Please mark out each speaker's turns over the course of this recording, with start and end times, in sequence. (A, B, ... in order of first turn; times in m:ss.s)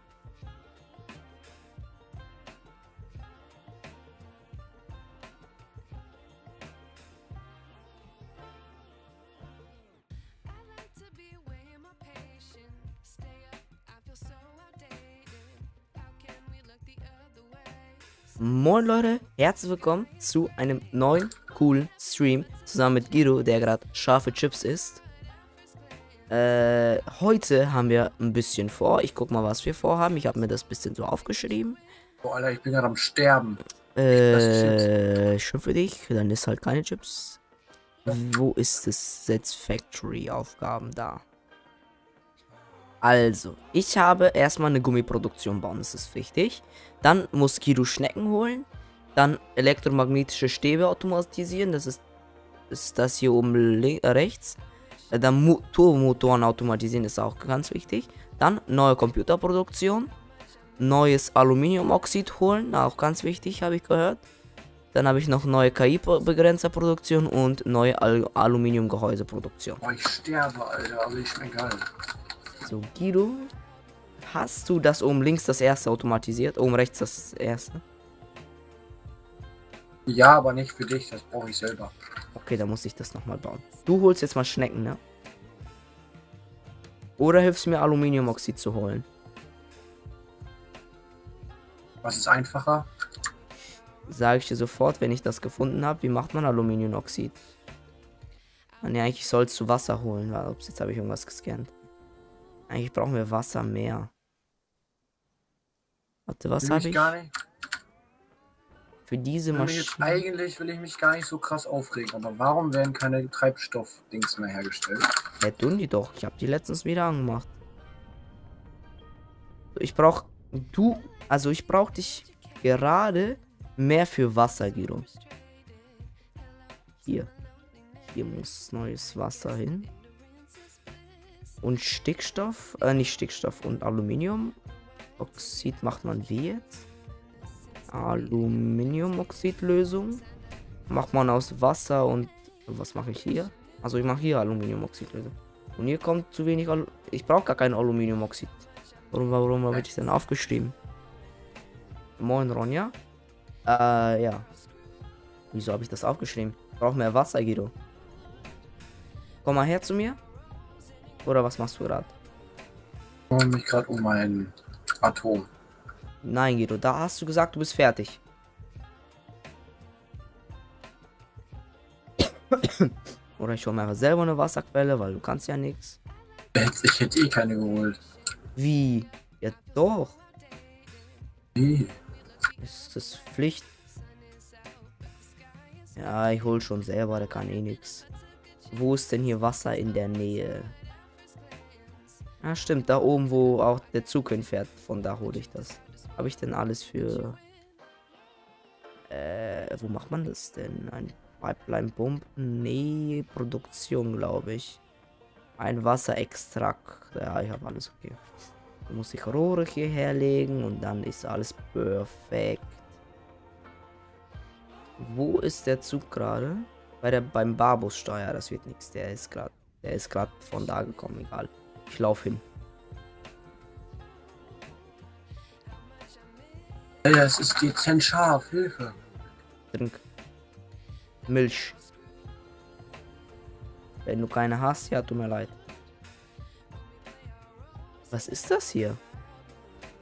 0:18.4-0:25.0 A
0:26.3-0:31.8 A
0:32.2-0:33.6 B
0:33.9-0:37.4 A
0:34.1-0:34.9 B
0:38.0-0:41.2 A
0:43.0-0:52.0 A
0:52.7-0:54.6 A
0:55.1-1:00.1 A
1:00.8-1:04.2 A
1:04.9-1:09.8 A
1:09.8-1:11.9 B
1:12.6-1:13.5 A
1:14.2-1:17.8 A
1:20.0-1:21.9 B
1:22.3-1:25.0 A
1:27.2-1:29.1 A
1:32.0-1:32.9 B
1:34.1-1:37.4 A
1:38.8-1:41.7 A
1:42.7-1:44.1 A
1:46.3-1:47.1 A
1:46.6-1:47.3 B
1:49.1-1:50.2 A
1:49.5-1:55.1 B
1:55.4-1:57.5 A
1:59.8-2:05.1 A
2:07.0-2:07.3 A
2:08.0-2:09.9 A
2:11.6-2:14.6 A
2:15.2-2:16.8 A
2:17.9-2:20.2 A
2:20.9-2:30.7 A
2:32.2-2:32.9 A
2:33.6-2:34.5 A
2:35.5-2:37.7 A
2:39.4-2:40.2 A
2:41.2-2:42.1 A
2:43.3-2:45.5 B
2:46.2-2:48.2 A
2:52.5-2:56.0 A
2:56.5-2:58.0 B
2:58.6-3:00.2 A
3:01.5-3:01.9 B
3:02.6-3:03.7 A
3:05.9-3:08.0 A
3:08.7-3:10.7 A
3:12.4-3:17.4 A
3:19.1-3:24.8 A
3:25.6-3:28.2 A
3:28.9-3:32.8 A
3:35.0-3:42.4 A
3:47.0-3:49.0 B
3:49.7-3:50.0 A
3:51.3-3:51.8 A
3:54.0-3:55.6 A
3:58.1-3:59.0 A